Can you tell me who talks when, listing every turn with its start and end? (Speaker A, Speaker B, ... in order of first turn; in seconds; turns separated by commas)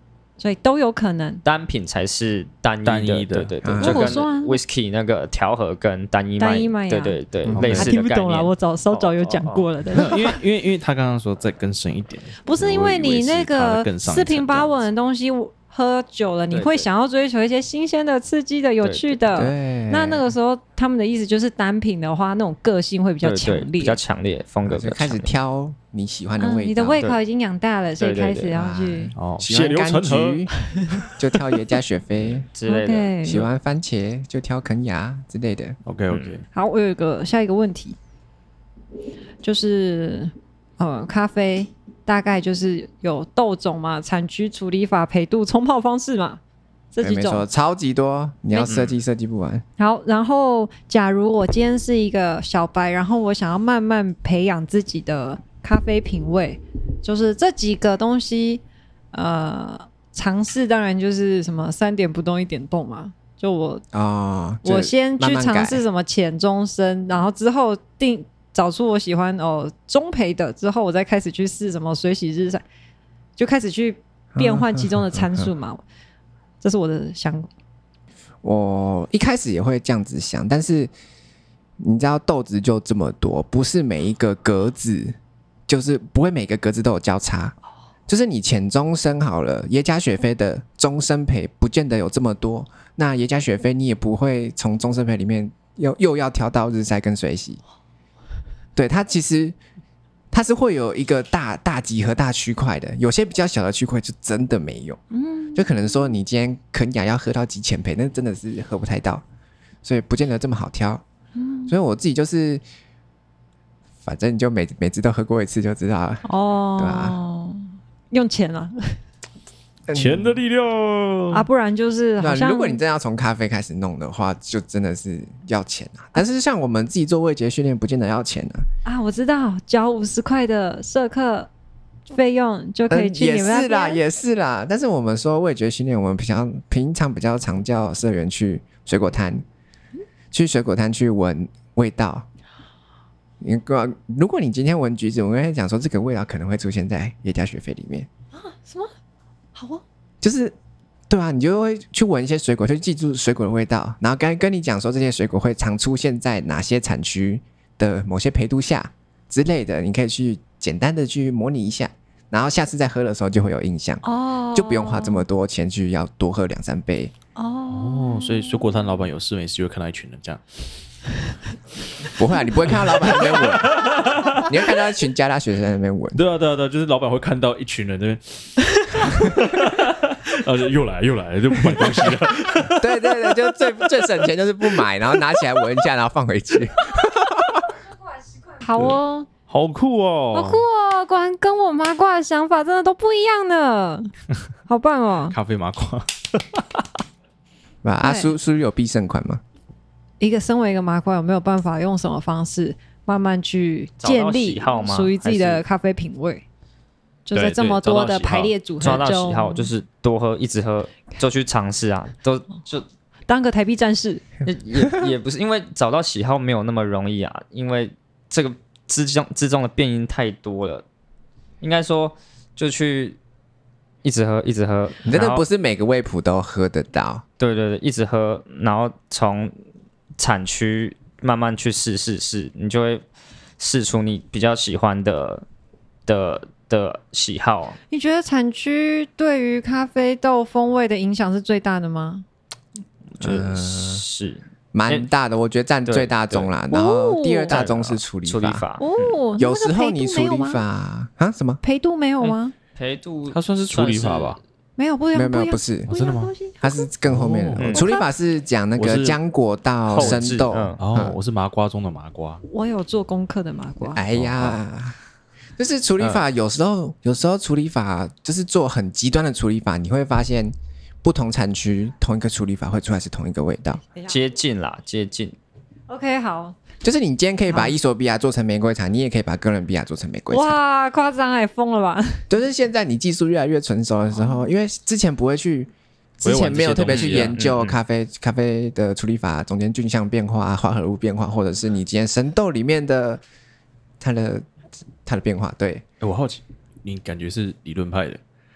Speaker A: 0.4-1.4, Speaker B: 1.4-9.7, Speaker C: 2.8-3.5, Speaker D: 3.6-4.2, Speaker A: 3.8-4.6, Speaker A: 6.4-10.4, Speaker D: 7.5-7.8, Speaker C: 7.5-7.9, Speaker C: 9.9-14.8, Speaker A: 12.4-24.0, Speaker B: 16.5-16.9, Speaker B: 18.8-19.4, Speaker D: 19.3-20.3, Speaker B: 23.2-25.3, Speaker D: 24.7-27.0, Speaker A: 26.4-29.1, Speaker B: 28.0-28.5, Speaker D: 28.5-30.5, Speaker C: 29.1-30.5, Speaker A: 30.8-31.0, Speaker D: 31.0-32.5, Speaker B: 32.5-33.4, Speaker A: 32.7-33.4, Speaker D: 33.2-35.8, Speaker C: 35.9-36.4, Speaker B: 36.1-36.4, Speaker A: 36.5-38.0, Speaker A: 39.4-46.4, Speaker A: 46.9-47.4, Speaker D: 47.0-49.6, Speaker B: 48.6-49.0, Speaker A: 49.8-63.8, Speaker D: 63.9-65.8, Speaker A: 64.6-72.6, Speaker A: 73.4-75.8, Speaker D: 74.3-75.5, Speaker A: 76.6-77.5, Speaker D: 78.4-80.9, Speaker D: 81.8-85.2, Speaker D: 85.7-87.5, Speaker D: 88.1-97.6, Speaker D: 98.8-99.5, Speaker D: 100.3-105.0, Speaker A: 105.1-105.7, Speaker D: 105.5-109.2, Speaker D: 109.8-111.0, Speaker A: 111.3-111.7, Speaker D: 111.7-112.6, Speaker D: 114.0-116.2, Speaker A: 116.2-119.0, Speaker D: 116.8-117.2, Speaker D: 119.9-120.4, Speaker C: 119.9-121.5, Speaker A: 121.3-122.8, Speaker D: 122.2-128.7, Speaker A: 128.8-131.5, Speaker A: 132.1-134.0, Speaker D: 132.9-139.4, Speaker D: 140.3-142.2, Speaker D: 143.4-148.1, Speaker A: 148.3-148.9, Speaker A: 149.5-149.8, Speaker D: 150.2-150.5, Speaker D: 151.1-167.1, Speaker A: 164.0-165.2, Speaker A: 167.3-168.8, Speaker C: 167.7-170.4, Speaker D: 172.1-176.2, Speaker C: 172.7-174.5, Speaker C: 176.1-183.2, Speaker D: 182.7-187.7, Speaker A: 188.5-189.3, Speaker C: 189.5-190.6, Speaker A: 190.3-194.1, Speaker A: 194.7-195.3, Speaker C: 195.3-196.8, Speaker D: 197.8-199.4, Speaker A: 198.0-198.3, Speaker A: 200.2-206.4, Speaker B: 204.0-205.6, Speaker A: 207.3-209.7, Speaker C: 207.3-208.5, Speaker B: 208.7-212.8, Speaker A: 213.3-214.2, Speaker B: 214.4-220.8, Speaker B: 221.6-223.2, Speaker B: 224.0-225.4, Speaker D: 225.0-227.2, Speaker B: 227.4-229.5, Speaker B: 230.2-233.0, Speaker B: 233.6-235.4, Speaker B: 236.1-237.8, Speaker A: 237.9-242.2, Speaker B: 243.2-245.1, Speaker D: 243.2-244.0, Speaker D: 244.7-248.6, Speaker B: 245.9-246.5, Speaker A: 246.7-247.6, Speaker B: 247.5-249.1, Speaker A: 248.8-250.6, Speaker D: 249.4-251.6, Speaker A: 251.6-252.5, Speaker B: 252.2-254.4, Speaker C: 253.3-254.4, Speaker A: 254.8-256.9, Speaker D: 255.1-255.9, Speaker C: 255.9-256.3, Speaker D: 256.6-261.2, Speaker C: 257.0-257.7, Speaker B: 257.6-257.8, Speaker A: 257.7-258.1, Speaker C: 258.8-259.2, Speaker B: 259.9-260.8, Speaker C: 259.9-260.3, Speaker C: 260.8-262.4, Speaker A: 262.5-264.0, Speaker D: 263.9-264.9, Speaker C: 264.1-264.6, Speaker D: 265.6-273.8, Speaker B: 266.0-266.2, Speaker B: 274.1-275.4, Speaker A: 275.9-276.6, Speaker D: 276.8-280.6, Speaker A: 277.5-277.7, Speaker A: 280.3-282.2, Speaker D: 282.3-293.2, Speaker C: 286.2-287.4, Speaker B: 286.9-287.8, Speaker D: 294.0-294.4, Speaker D: 295.0-295.8, Speaker C: 296.0-298.2